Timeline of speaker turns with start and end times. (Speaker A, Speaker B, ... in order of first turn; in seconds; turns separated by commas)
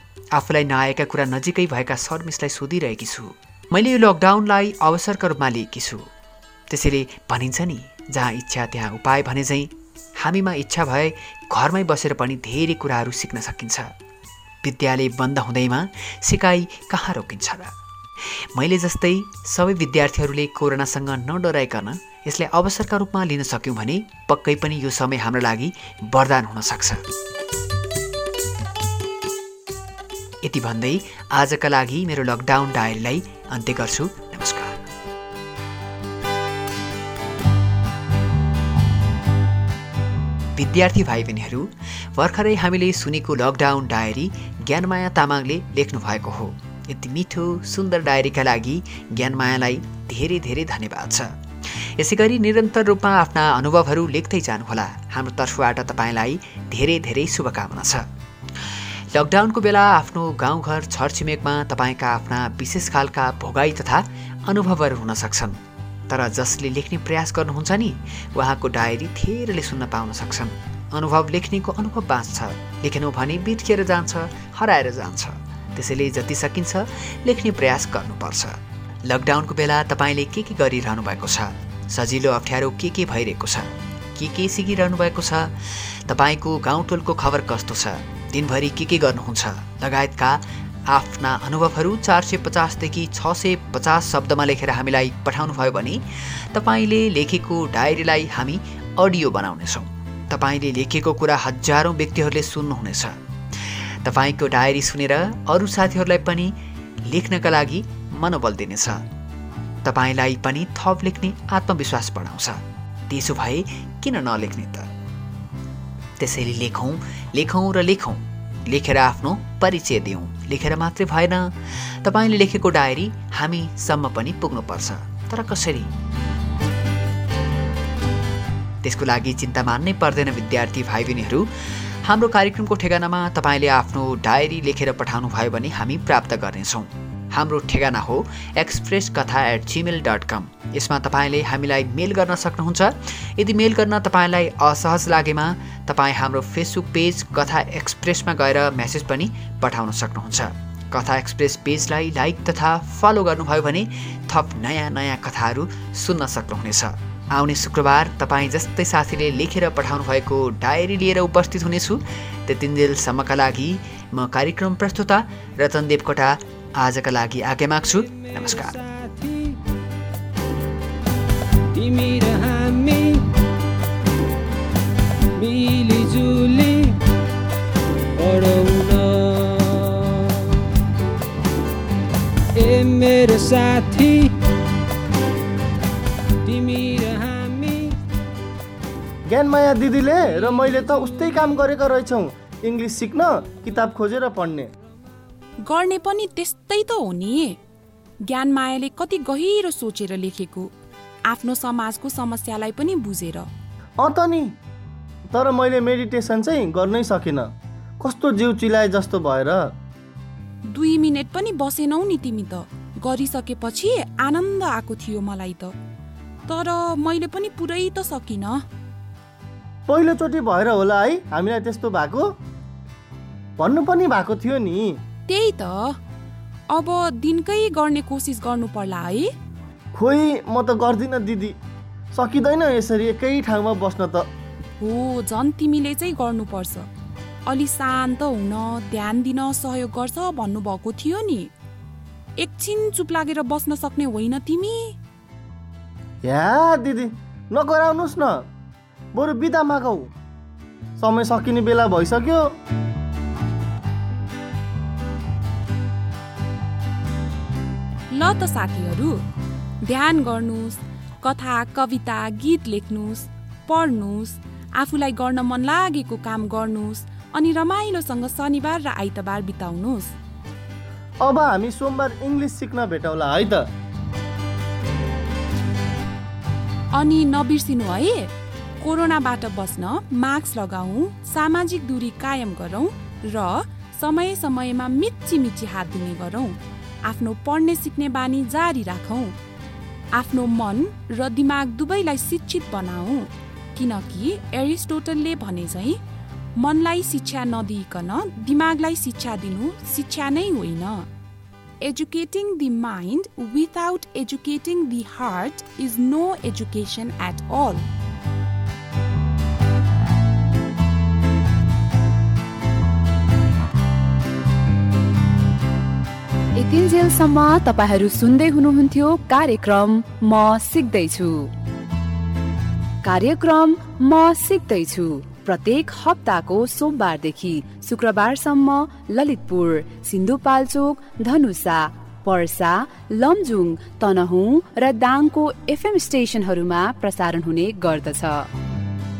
Speaker A: 0.3-6.0, Speaker A: 6.7-13.9, Speaker A: 14.6-27.0, Speaker A: 30.4-34.8, Speaker A: 40.5-58.0, Speaker A: 58.6-65.6, Speaker A: 66.1-106.5, Speaker A: 107.0-109.0, Speaker A: 109.8-114.9, Speaker A: 116.2-125.9, Speaker A: 128.8-168.8, Speaker B: 168.1-169.6, Speaker B: 171.7-173.2, Speaker B: 175.4-176.9, Speaker B: 178.2-180.5, Speaker B: 182.6-184.3, Speaker B: 186.4-187.9, Speaker C: 189.3-194.7, Speaker B: 190.7-191.3, Speaker D: 195.6-197.6, Speaker D: 198.3-200.7, Speaker D: 201.3-203.5, Speaker C: 204.0-204.5, Speaker C: 205.3-209.7, Speaker D: 210.7-215.7, Speaker D: 216.5-218.6, Speaker C: 219.9-222.3, Speaker C: 223.6-225.0, Speaker D: 225.3-226.0, Speaker D: 226.7-229.3, Speaker C: 229.9-231.5, Speaker C: 232.1-234.3, Speaker D: 234.8-236.9, Speaker D: 237.5-241.5, Speaker D: 242.4-244.9, Speaker C: 246.2-248.4, Speaker C: 249.1-250.1, Speaker C: 251.0-252.5, Speaker D: 258.1-259.1, Speaker D: 259.9-270.1, Speaker C: 271.2-273.7, Speaker D: 276.9-278.3, Speaker D: 278.8-289.3, Speaker D: 290.1-296.0, Speaker D: 296.6-301.1, Speaker D: 301.8-307.8, Speaker E: 316.6-321.5, Speaker E: 323.0-338.5